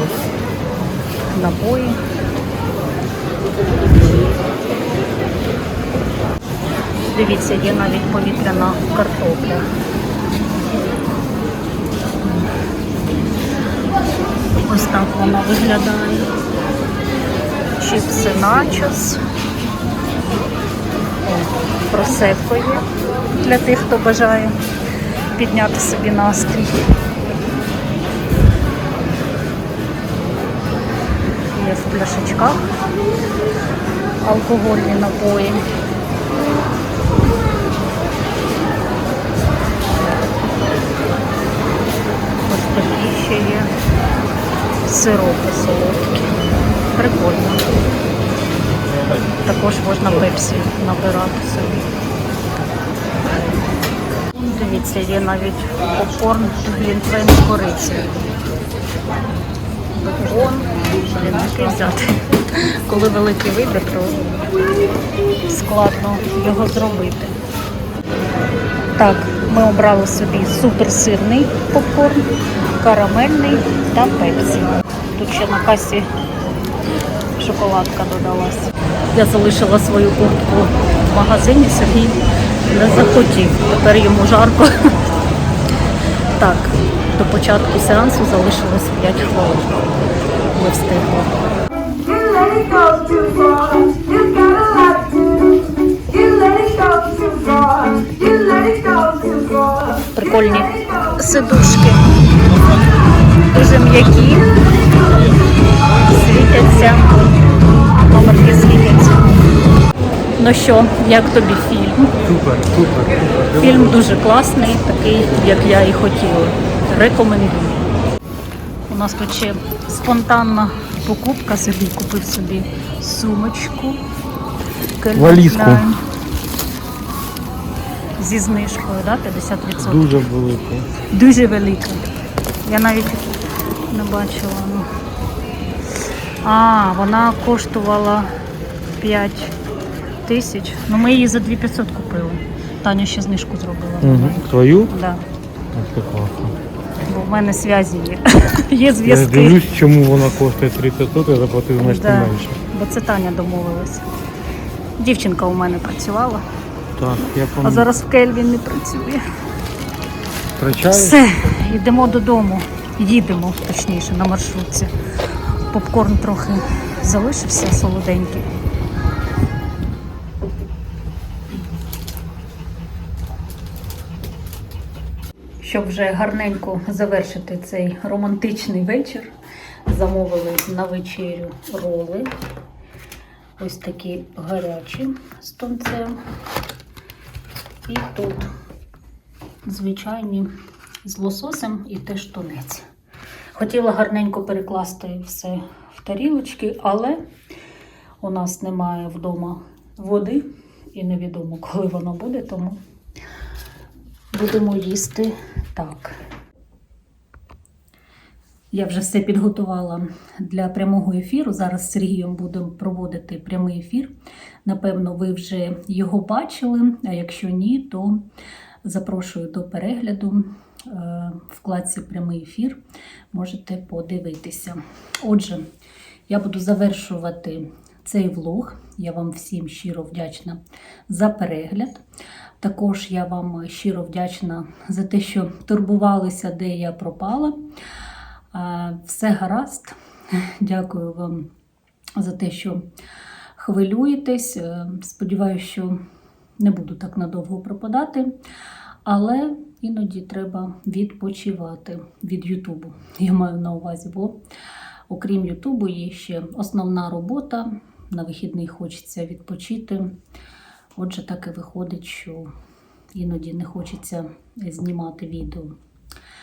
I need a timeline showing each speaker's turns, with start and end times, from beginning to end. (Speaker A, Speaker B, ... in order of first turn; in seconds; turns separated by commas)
Speaker A: 1.3-2.0, Speaker A: 7.1-9.7, Speaker A: 14.6-16.3, Speaker A: 17.8-19.2, Speaker A: 21.2-24.6, Speaker A: 25.4-26.9, Speaker A: 31.5-32.7, Speaker A: 34.2-35.6, Speaker A: 42.5-43.7, Speaker A: 44.8-46.4, Speaker A: 46.9-47.6, Speaker A: 49.4-51.9, Speaker A: 54.4-58.3, Speaker A: 60.0-64.3, Speaker A: 65.5-67.3, Speaker A: 68.9-76.1, Speaker A: 77.4-84.9, Speaker A: 86.4-89.9, Speaker A: 90.5-91.5, Speaker A: 100.1-102.1, Speaker A: 103.5-104.5, Speaker A: 106.0-107.3, Speaker A: 108.1-109.2, Speaker A: 110.4-112.1, Speaker B: 112.2-114.2, Speaker A: 113.6-117.8, Speaker A: 118.9-124.0, Speaker A: 125.0-126.0, Speaker B: 125.1-125.8, Speaker A: 128.2-130.2, Speaker B: 129.8-130.9, Speaker A: 131.1-132.0, Speaker A: 132.6-133.3, Speaker A: 133.9-134.9, Speaker A: 136.4-138.3, Speaker A: 139.0-139.5, Speaker A: 140.2-145.2, Speaker B: 144.0-144.9, Speaker B: 145.7-146.6, Speaker A: 147.1-149.6, Speaker B: 149.0-152.6, Speaker A: 151.8-154.1, Speaker A: 155.0-156.4, Speaker B: 157.0-157.9, Speaker A: 157.2-159.2, Speaker B: 160.6-161.7, Speaker A: 160.9-164.9, Speaker A: 165.7-168.5, Speaker A: 175.6-179.3, Speaker A: 179.8-182.3, Speaker A: 183.6-186.2, Speaker A: 187.8-188.5, Speaker A: 189.7-190.5, Speaker A: 191.0-192.8, Speaker A: 193.5-197.2, Speaker A: 198.2-202.8, Speaker A: 204.3-206.2, Speaker A: 208.7-214.1, Speaker A: 214.6-218.2, Speaker A: 218.8-222.8, Speaker A: 223.3-225.7, Speaker A: 226.3-232.0, Speaker A: 232.6-237.6, Speaker A: 238.5-241.5, Speaker A: 242.2-242.8, Speaker A: 243.6-246.0, Speaker A: 246.6-248.3, Speaker A: 249.0-254.4, Speaker A: 255.1-260.2, Speaker A: 260.9-262.5, Speaker A: 263.1-265.8